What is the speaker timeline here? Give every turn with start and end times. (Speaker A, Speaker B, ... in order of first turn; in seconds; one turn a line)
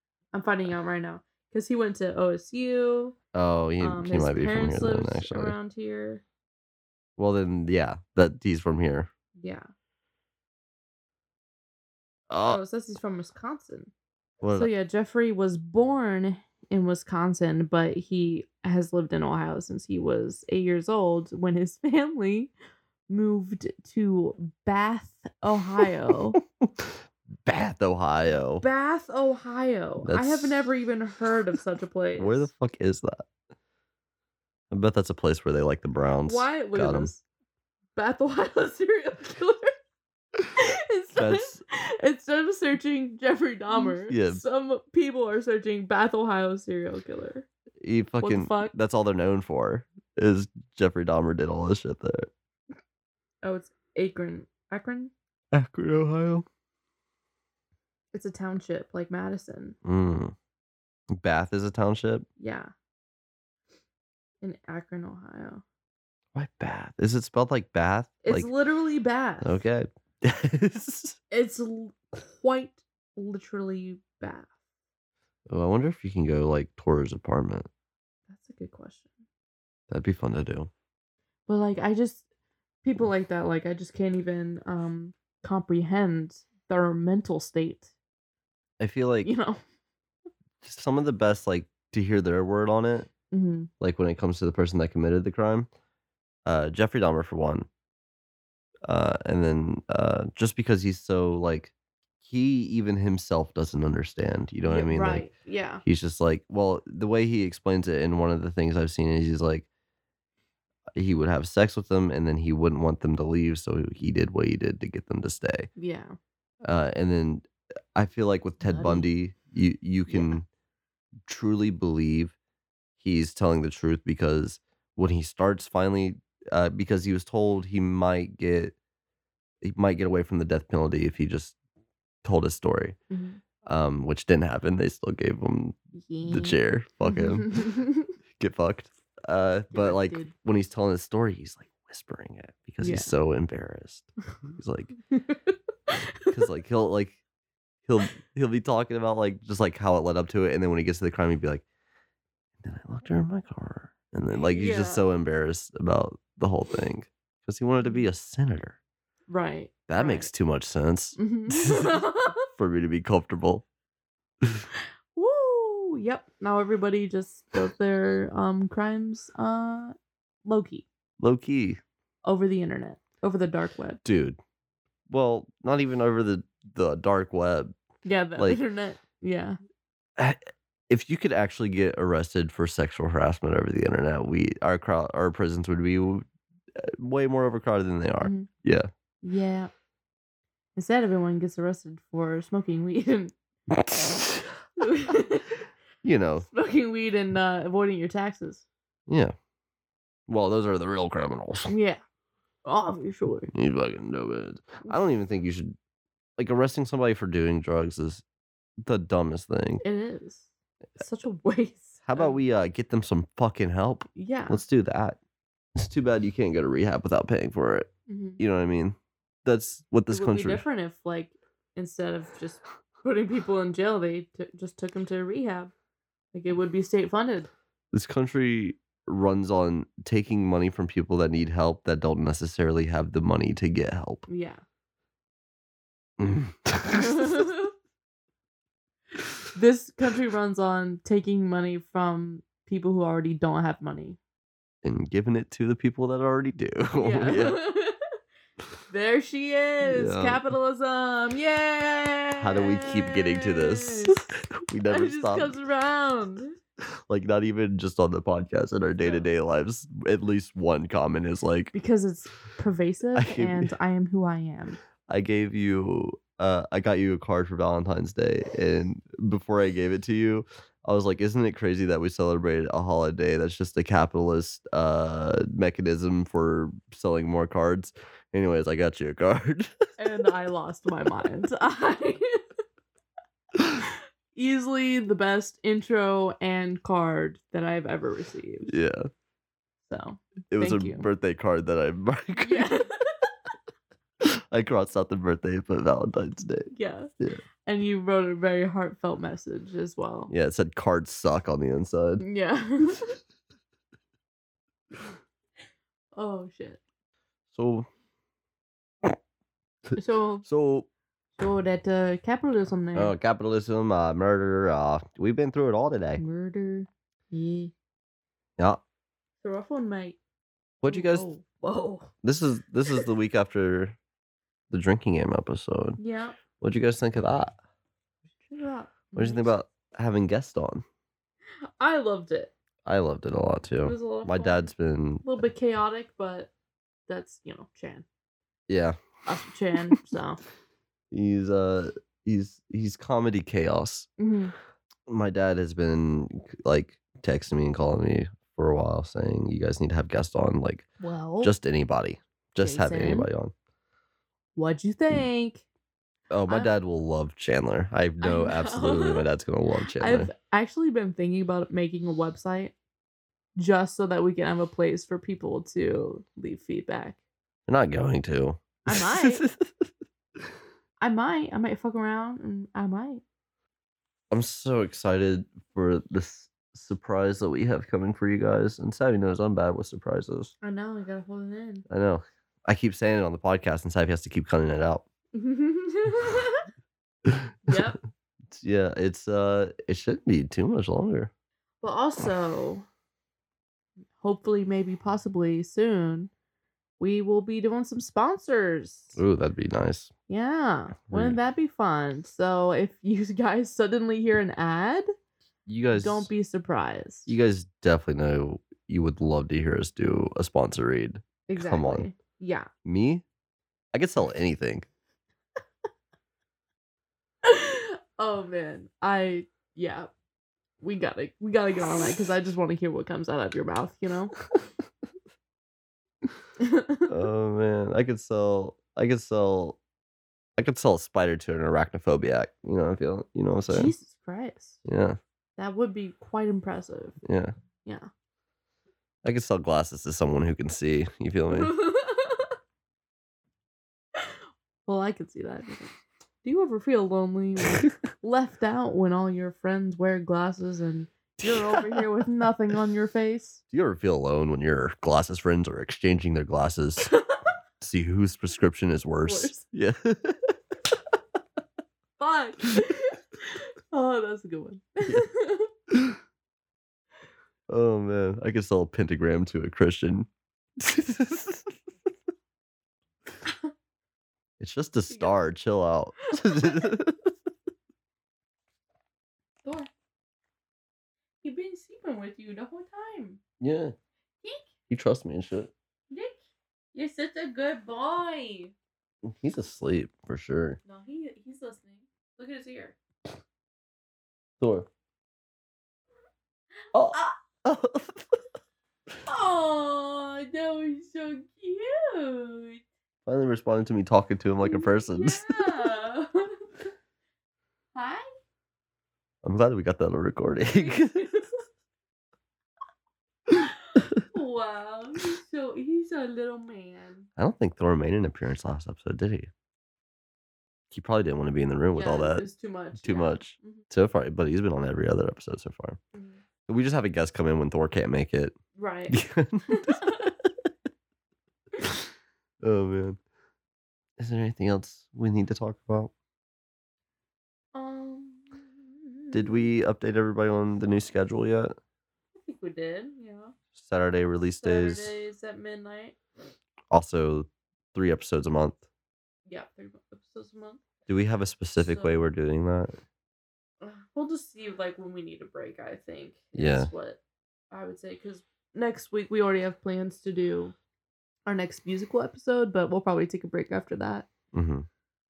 Speaker A: 0.3-3.2
Speaker B: 3.3-5.5
Speaker A: 3.8-6.2
Speaker B: 7.2-9.1
Speaker A: 9.4-9.7
Speaker B: 12.3-12.6
Speaker A: 12.5-13.9
Speaker B: 14.4-14.7
Speaker A: 14.5-22.5
Speaker A: 23.1-26.4
Speaker B: 26.6-28.6
Speaker A: 28.6-32.5
Speaker B: 30.0-30.6
Speaker B: 32.2-33.3
Speaker B: 34.7-37.1
Speaker A: 36.2-37.2
Speaker A: 38.0-39.7
Speaker A: 40.5-47.5
Speaker B: 41.1-41.6
Speaker B: 43.8-44.4
Speaker B: 47.8-52.3
Speaker A: 48.2-48.7
Speaker A: 53.4-55.1
Speaker B: 55.5-56.5
Speaker A: 58.1-59.8
Speaker B: 59.9-60.3
Speaker B: 61.1-62.3
Speaker A: 62.4-62.7
Speaker A: 64.4-65.6
Speaker B: 66.3-68.5
Speaker A: 68.2-69.6
Speaker B: 69.4-71.2
Speaker A: 71.3-74.5
Speaker B: 75.5-77.7
Speaker A: 78.3-79.1
Speaker B: 79.9-80.7
Speaker A: 81.5-82.2
Speaker A: 82.8-87.9
Speaker B: 88.8-89.3
Speaker A: 89.2-89.6
Speaker B: 90.6-93.1
Speaker A: 93.3-93.7
Speaker B: 93.8-95.7
Speaker B: 96.5-97.7
Speaker B: 98.8-105.3
Speaker A: 104.7-105.8
Speaker B: 105.8-109.7
Speaker B: 111.0-115.7
Speaker A: 115.8-116.2
Speaker B: 116.7-120.5
Speaker A: 118.6-119.1
Speaker A: 120.1-120.3
Speaker B: 121.3-122.3
Speaker B: 123.0-128.8
Speaker B: 129.6-131.6
Speaker B: 132.2-133.0
Speaker A: 133.1-133.4
Speaker B: 133.6-137.8
Speaker A: 135.9-138.1
Speaker B: 138.4-144.9
Speaker A: 139.7-140.3
Speaker A: 142.8-143.1
Speaker A: 145.1-146.3
Speaker B: 146.3-147.2
Speaker B: 147.9-151.6
Speaker B: 152.6-158.8
Speaker A: 154.3-155.0
Speaker A: 157.8-158.1
Speaker A: 159.3-160.3
Speaker B: 159.9-163.6
Speaker A: 161.2-162.5
Speaker A: 165.2-170.9
Speaker B: 171.2-171.8
Speaker A: 172.2-174.0
Speaker B: 174.0-174.4
Speaker B: 175.1-177.7
Speaker A: 178.0-179.6
Speaker B: 180.2-186.2
Speaker B: 186.8-188.9
Speaker A: 188.2-188.5
Speaker A: 189.2-189.7
Speaker A: 190.8-193.3
Speaker B: 193.7-194.4
Speaker A: 194.8-195.6
Speaker B: 196.0-196.5
Speaker A: 196.5-198.6
Speaker B: 199.1-199.3
Speaker B: 200.3-201.7
Speaker A: 201.7-202.0
Speaker A: 202.7-203.5
Speaker B: 203.5-205.7
Speaker B: 206.4-208.2
Speaker B: 208.8-209.8
Speaker A: 209.8-212.4
Speaker B: 212.1-215.2
Speaker A: 214.2-214.6
Speaker B: 215.8-220.6
Speaker A: 218.1-218.4
Speaker A: 220.1-225.7
Speaker A: 226.3-227.5
Speaker B: 227.9-234.3
Speaker A: 234.3-234.6
Speaker B: 236.2-237.5
Speaker A: 236.9-237.7
Speaker A: 239.5-244.2
Speaker B: 244.8-247.6
Speaker A: 247.0-248.0
Speaker A: 248.9-254.2
Speaker B: 249.8-250.4
Speaker B: 252.4-255.6
Speaker A: 254.9-256.6
Speaker B: 257.1-261.7
Speaker A: 259.0-259.3
Speaker A: 261.7-264.8
Speaker B: 263.2-263.7
Speaker B: 265.1-279.7
Speaker A: 280.0-282.4
Speaker A: 283.8-288.8
Speaker B: 288.7-289.1
Speaker A: 289.9-291.1
Speaker B: 290.5-292.7
Speaker A: 292.4-293.3
Speaker B: 294.2-297.4
Speaker A: 296.7-297.1
Speaker A: 297.6-300.3
Speaker B: 300.3-302.2
Speaker A: 302.2-303.2
Speaker A: 306.1-306.8
Speaker B: 307.5-307.9
Speaker A: 310.0-310.4
Speaker B: 310.4-310.9
Speaker A: 311.4-313.1
Speaker B: 312.9-316.2
Speaker A: 316.2-317.7
Speaker A: 319.4-320.2
Speaker B: 320.8-321.3
Speaker A: 320.9-322.1
Speaker B: 322.2-324.0
Speaker B: 324.7-326.0
Speaker A: 326.0-326.4
Speaker B: 326.6-327.5
Speaker A: 328.4-329.5
Speaker B: 329.2-330.8
Speaker A: 331.8-332.5
Speaker B: 332.9-335.2
Speaker A: 333.8-334.7
Speaker A: 335.2-336.5
Speaker A: 337.1-338.1
Speaker B: 338.7-339.0
Speaker A: 339.3-340.4
Speaker B: 341.1-344.1
Speaker A: 344.2-344.5
Speaker B: 345.1-350.9
Speaker A: 351.0-351.5
Speaker B: 351.4-353.5
Speaker A: 352.6-353.3
Speaker A: 354.6-355.7
Speaker B: 356.3-360.3
Speaker A: 358.2-359.3
Speaker A: 360.0-362.7
Speaker A: 363.6-367.2
Speaker B: 367.7-369.9
Speaker A: 368.8-369.4
Speaker A: 371.0-373.2
Speaker B: 374.3-380.5
Speaker A: 380.6-381.9
Speaker B: 381.9-385.1
Speaker A: 385.3-386.7
Speaker B: 387.2-387.5
Speaker A: 387.7-388.0
Speaker B: 388.5-391.3
Speaker A: 391.8-392.9
Speaker A: 394.2-396.3
Speaker A: 397.0-399.2
Speaker B: 399.1-400.1
Speaker A: 400.3-405.1
Speaker B: 401.1-401.4
Speaker B: 405.7-406.3
Speaker A: 405.9-407.3
Speaker B: 407.3-412.1
Speaker A: 411.5-412.7
Speaker B: 412.9-413.2
Speaker B: 413.9-414.9
Speaker A: 417.4-420.1
Speaker A: 420.8-424.4
Speaker A: 426.6-427.1
Speaker B: 427.1-429.8
Speaker B: 430.6-433.9
Speaker A: 433.7-434.8
Speaker B: 434.9-435.2
Speaker A: 435.6-437.2
Speaker B: 437.2-437.6
Speaker B: 439.2-441.8
Speaker A: 441.5-442.5
Speaker A: 444.9-453.6
Speaker B: 451.4-452.1
Speaker B: 453.7-457.1
Speaker A: 457.0-457.4
Speaker B: 457.8-460.5
Speaker A: 459.3-459.6
Speaker A: 462.2-465.7
Speaker B: 465.9-466.2
Speaker B: 467.7-471.7
Speaker B: 474.6-477.3
Speaker A: 475.1-475.4
Speaker A: 476.3-476.9
Speaker A: 479.6-479.9
Speaker A: 481.4-483.4
Speaker B: 483.6-483.9
Speaker B: 484.9-485.7
Speaker A: 486.1-486.4
Speaker A: 486.9-488.7
Speaker B: 489.2-490.8
Speaker A: 490.9-493.0
Speaker B: 494.6-494.9
Speaker B: 496.9-498.4
Speaker A: 499.3-502.8
Speaker B: 503.3-505.5
Speaker A: 504.6-506.6
Speaker A: 507.9-508.3
Speaker B: 509.4-511.3
Speaker A: 510.7-511.6
Speaker A: 513.5-517.3
Speaker B: 517.4-519.5
Speaker B: 520.9-522.5
Speaker A: 522.0-523.8
Speaker B: 523.0-526.0
Speaker A: 526.1-526.4
Speaker B: 526.7-528.6
Speaker A: 528.8-530.3
Speaker B: 529.1-530.3
Speaker B: 532.6-533.2
Speaker B: 534.2-536.1
Speaker A: 537.7-539.7
Speaker B: 539.3-541.8
Speaker A: 542.4-543.6
Speaker B: 543.7-545.1
Speaker A: 544.6-546.2
Speaker B: 546.9-548.8
Speaker A: 549.5-550.8
Speaker B: 551.1-553.0
Speaker A: 551.8-552.1
Speaker A: 553.8-557.2
Speaker B: 556.5-556.9
Speaker A: 557.7-560.7
Speaker A: 561.5-564.3
Speaker B: 564.5-564.9